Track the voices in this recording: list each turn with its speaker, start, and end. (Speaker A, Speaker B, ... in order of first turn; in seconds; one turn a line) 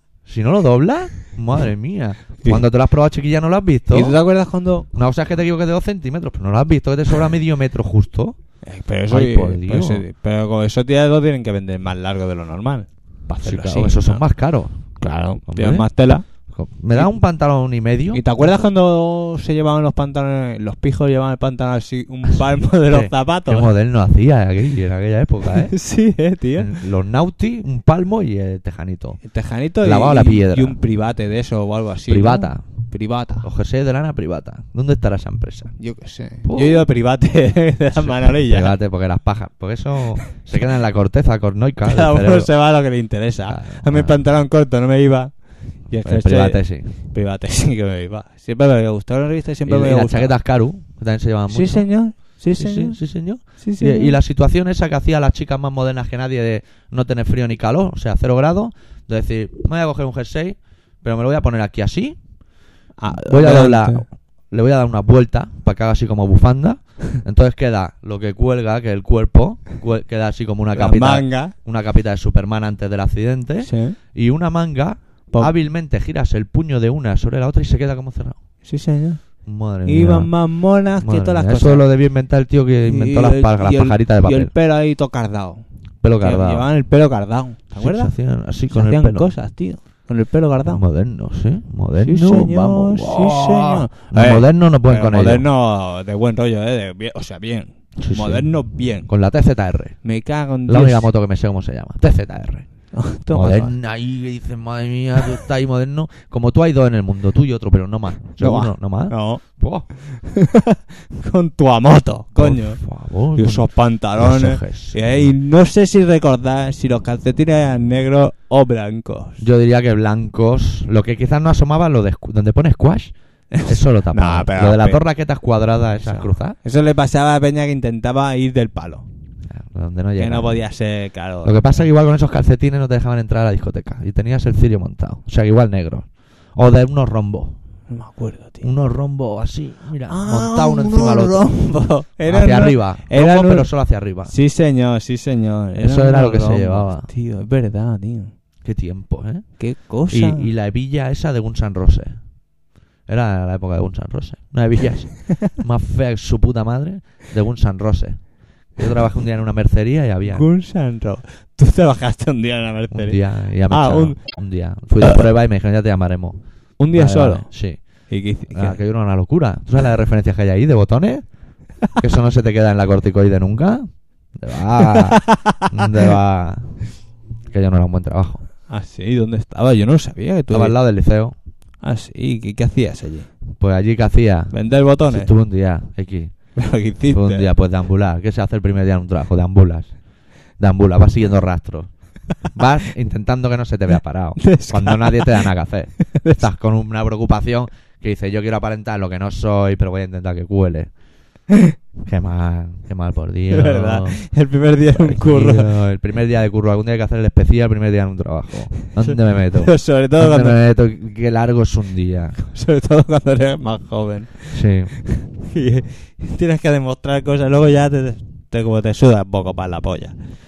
Speaker A: 0.3-4.2
Speaker B: 3.9-4.9
Speaker A: 4.9-8.4
Speaker B: 8.6-14.2
Speaker A: 9.1-10.0
Speaker A: 13.4-14.8
Speaker B: 15.0-16.3
Speaker A: 15.5-15.9
Speaker A: 16.5-18.2
Speaker B: 18.1-23.7
Speaker A: 22.9-25.8
Speaker B: 25.7-26.8
Speaker A: 26.6-29.2
Speaker B: 29.3-33.5
Speaker A: 29.8-30.8
Speaker A: 32.1-32.6
Speaker A: 33.4-35.8
Speaker B: 35.8-38.7
Speaker A: 36.4-36.9
Speaker A: 38.0-42.5
Speaker B: 41.9-50.4
Speaker A: 43.5-44.2
Speaker A: 45.9-46.9
Speaker A: 49.7-62.2
Speaker B: 51.5-53.0
Speaker B: 53.5-54.2
Speaker B: 63.0-64.1
Speaker A: 63.1-78.4
Speaker B: 70.8-71.5
Speaker B: 73.6-74.0
Speaker B: 78.7-79.2
Speaker A: 79.5-80.3
Speaker B: 79.8-81.9
Speaker A: 81.0-84.5
Speaker B: 82.9-85.6
Speaker A: 86.0-86.7
Speaker B: 86.2-88.1
Speaker A: 87.8-89.3
Speaker B: 88.7-90.8
Speaker A: 90.7-95.5
Speaker B: 92.0-99.1
Speaker A: 98.0-98.4
Speaker A: 99.1-100.0
Speaker B: 100.0-101.1
Speaker A: 100.7-102.7
Speaker B: 102.9-103.8
Speaker A: 103.3-109.9
Speaker B: 108.4-109.4
Speaker B: 110.0-112.8
Speaker A: 112.4-115.3
Speaker B: 113.3-119.4
Speaker A: 119.4-123.1
Speaker B: 123.5-125.0
Speaker A: 123.7-126.6
Speaker B: 126.0-129.1
Speaker A: 129.5-130.5
Speaker B: 130.2-131.8
Speaker A: 131.4-137.6
Speaker B: 137.9-138.7
Speaker A: 138.6-141.5
Speaker B: 140.1-143.7
Speaker A: 142.3-144.3
Speaker B: 144.3-148.3
Speaker A: 145.8-147.1
Speaker A: 148.6-149.5
Speaker B: 149.6-150.5
Speaker A: 150.1-152.2
Speaker A: 153.1-160.5
Speaker B: 160.3-164.2
Speaker A: 162.9-166.4
Speaker B: 166.8-167.5
Speaker A: 166.9-167.8
Speaker B: 168.1-168.8
Speaker A: 168.5-171.2
Speaker A: 172.0-176.8
Speaker B: 174.8-176.1
Speaker A: 177.5-178.4
Speaker B: 178.7-180.8
Speaker A: 180.5-181.3
Speaker B: 181.8-183.3
Speaker A: 183.6-184.6
Speaker B: 184.5-185.3
Speaker A: 185.1-186.3
Speaker B: 186.6-187.5
Speaker A: 187.1-189.9
Speaker A: 190.6-191.9
Speaker A: 192.4-200.9
Speaker B: 194.4-195.5
Speaker B: 196.1-196.5
Speaker A: 202.0-204.2
Speaker B: 203.5-205.7
Speaker A: 205.0-212.4
Speaker B: 208.9-210.6
Speaker B: 212.4-220.2
Speaker A: 214.5-214.9